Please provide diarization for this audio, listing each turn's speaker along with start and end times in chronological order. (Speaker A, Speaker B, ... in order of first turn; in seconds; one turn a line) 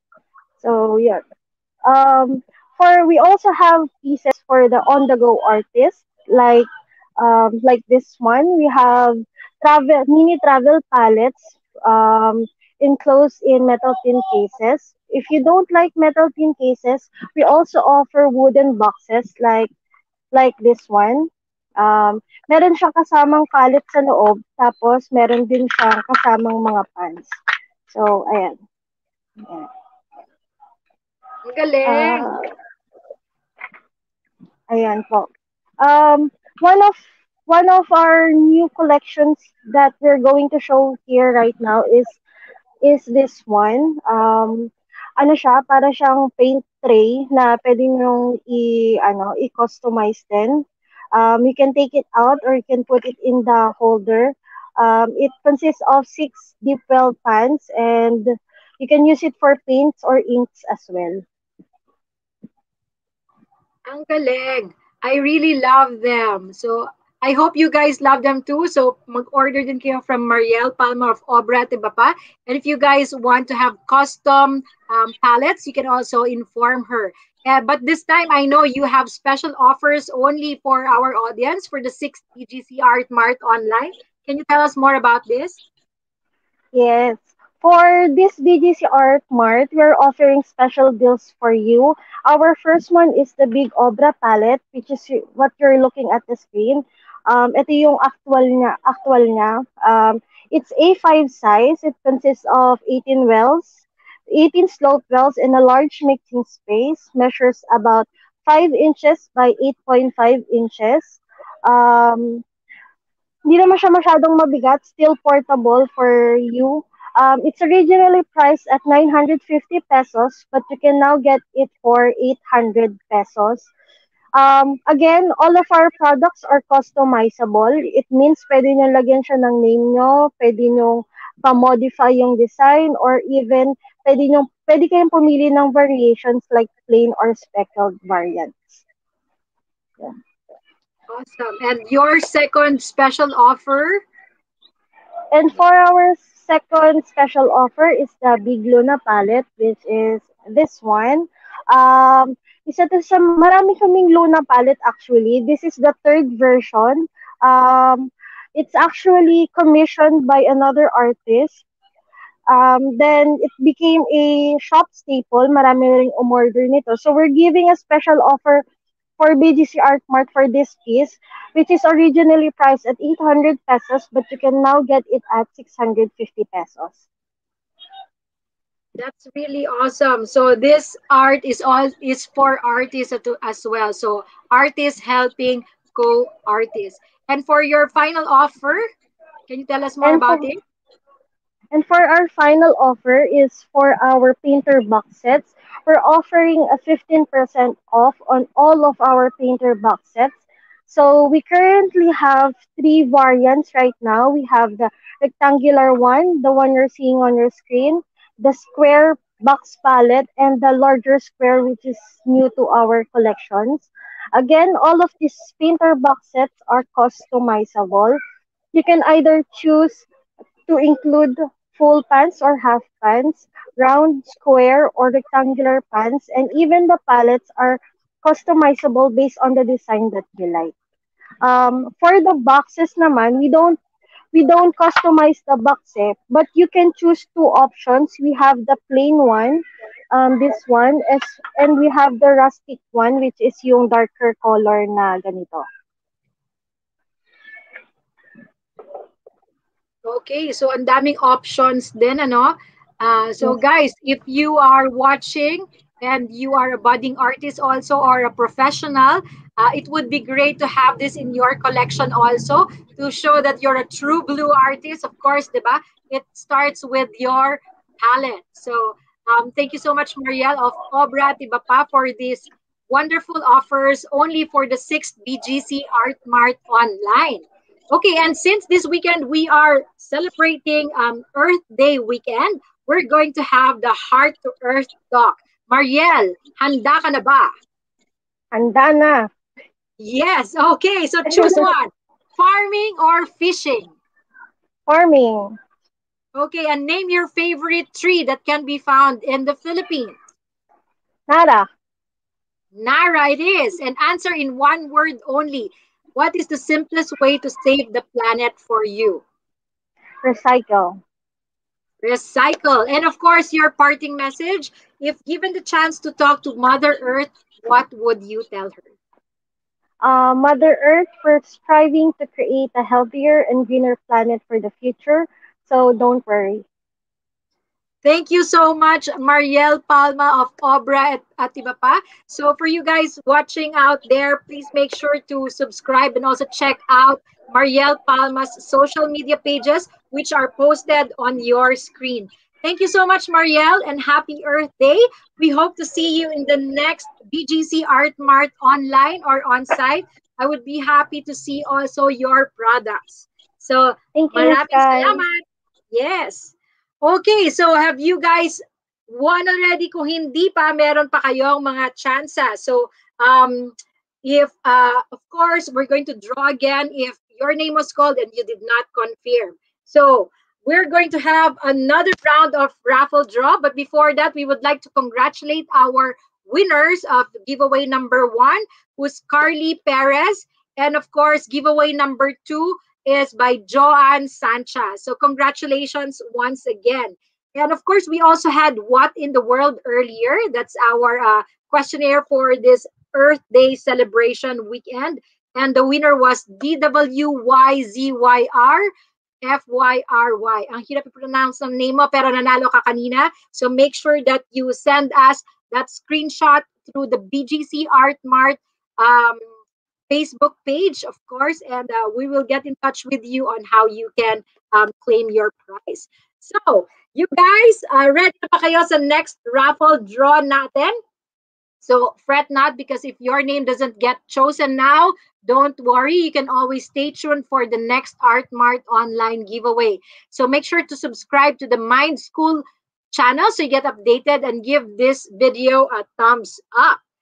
Speaker A: 0.6-1.2
Speaker A: 1.9-6.7
Speaker A: 7.2-19.7
Speaker A: 20.3-27.3
Speaker A: 27.9-28.6
Speaker A: 29.4-29.7
Speaker B: 31.4-32.3
Speaker A: 31.9-32.5
Speaker A: 34.7-35.3
Speaker A: 35.8-42.2
Speaker A: 42.8-61.2
Speaker B: 63.9-85.6
Speaker A: 86.7-112.4
Speaker A: 113.5-123.7
Speaker A: 124.3-138.8
Speaker B: 141.1-144.0
Speaker A: 145.3-161.6
Speaker A: 162.5-168.6
Speaker A: 169.2-177.0
Speaker B: 179.0-188.9
Speaker B: 189.5-190.6
Speaker A: 190.0-190.5
Speaker A: 191.7-218.2
Speaker A: 218.7-220.1
Speaker A: 220.7-230.7
Speaker A: 231.4-233.8
Speaker A: 234.3-245.7
Speaker B: 250.1-287.5
Speaker A: 288.5-289.3
Speaker B: 290.0-293.9
Speaker A: 294.9-295.6
Speaker B: 296.4-300.2
Speaker A: 301.3-301.7
Speaker B: 302.8-309.2
Speaker A: 310.2-311.0
Speaker B: 312.0-318.9
Speaker A: 320.0-326.6
Speaker B: 328.0-398.9
Speaker A: 354.1-355.2
Speaker B: 399.4-409.4
Speaker B: 410.1-421.0
Speaker B: 421.8-437.0